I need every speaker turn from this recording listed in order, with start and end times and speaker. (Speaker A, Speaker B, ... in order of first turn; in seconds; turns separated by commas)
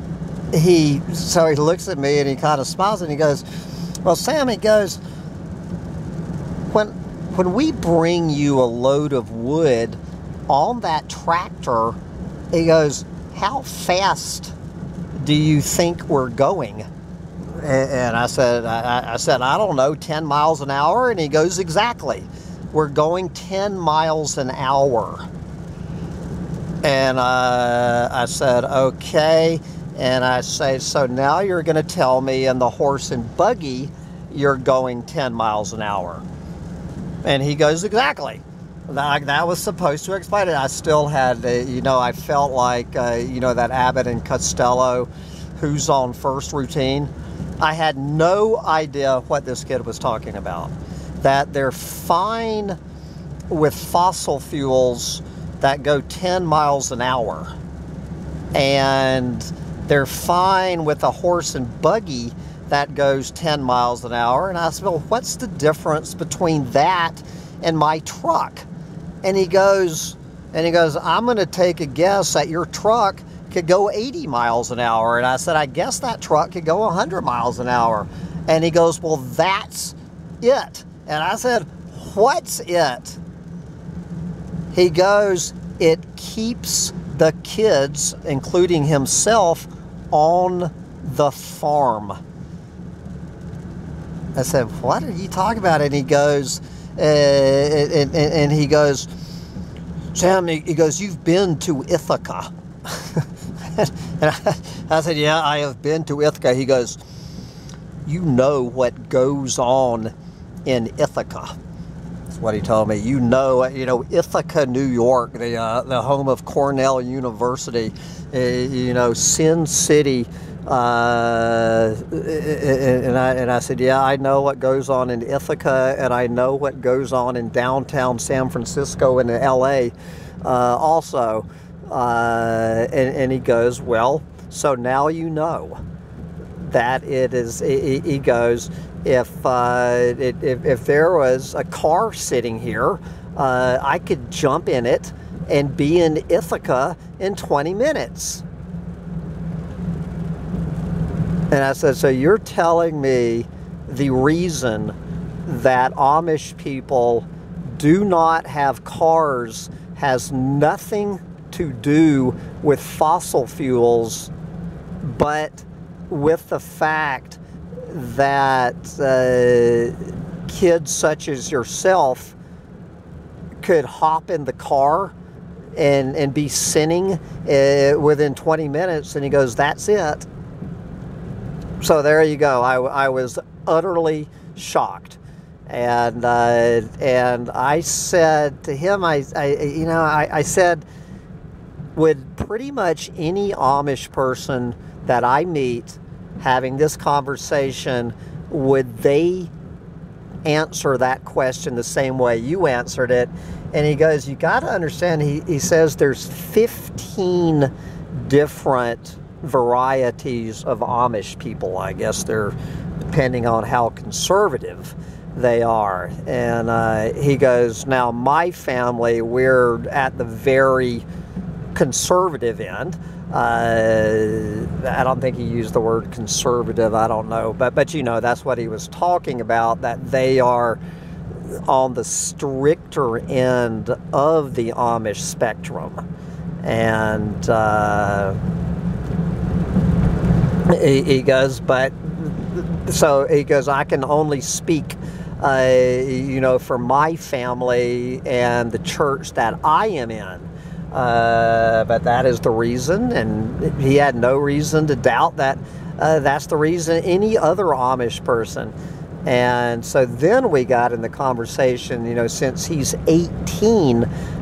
Speaker A: 0.5-3.5, Speaker A: 4.0-5.0, Speaker A: 6.7-12.0, Speaker A: 12.5-14.6, Speaker A: 15.2-16.9, Speaker A: 17.6-25.3, Speaker A: 26.8-36.2, Speaker A: 37.2-52.8, Speaker A: 53.5-57.5, Speaker A: 58.5-68.7, Speaker A: 69.2-83.2, Speaker A: 84.7-92.2, Speaker A: 94.3-99.1, Speaker A: 100.1-107.0, Speaker A: 108.1-110.1, Speaker A: 110.7-111.6, Speaker A: 112.3-135.8, Speaker A: 136.6-148.4, Speaker A: 151.5-154.9, Speaker A: 155.5-164.3, Speaker A: 165.0-172.4, Speaker A: 173.6-175.2, Speaker A: 175.8-180.3, Speaker A: 181.8-190.8, Speaker A: 191.9-199.5, Speaker A: 200.4-212.6, Speaker A: 213.1-221.1, Speaker A: 221.7-230.8, Speaker A: 231.5-236.0, Speaker A: 236.6-238.4, Speaker A: 240.7-258.8, Speaker A: 259.3-264.1